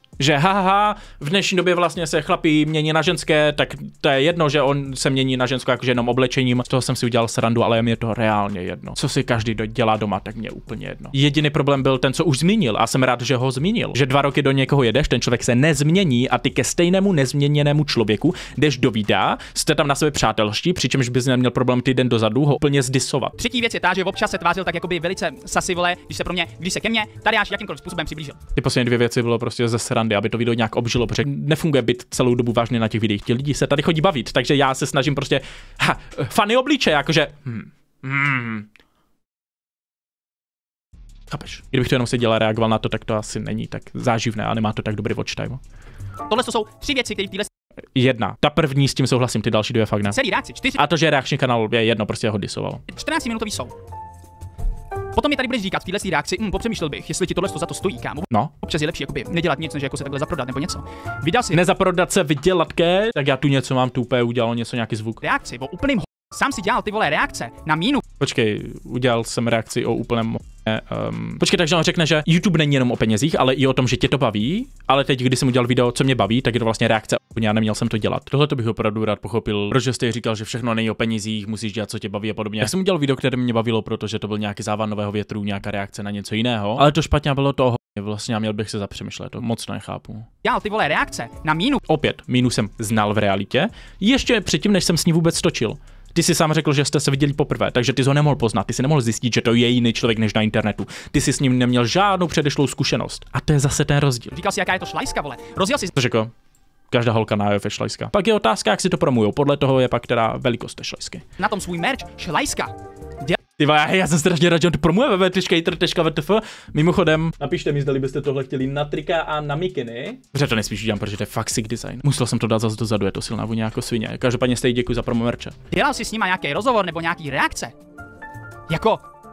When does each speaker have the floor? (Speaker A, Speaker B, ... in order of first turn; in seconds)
Speaker A: 0.2-23.4, 28.6-38.7, 41.3-45.6, 48.0-50.2, 50.8-52.8, 61.5-65.2, 68.2-90.3, 91.8-104.3, 105.9-106.3, 106.9-111.2, 113.6-125.5
Speaker B: 23.4-28.4, 46.3-47.5, 50.1-50.8, 52.9-53.7, 55.1-61.6, 65.2-68.0, 90.4-91.8, 104.3-105.9, 111.4-113.4, 125.7-127.7, 128.7-129.1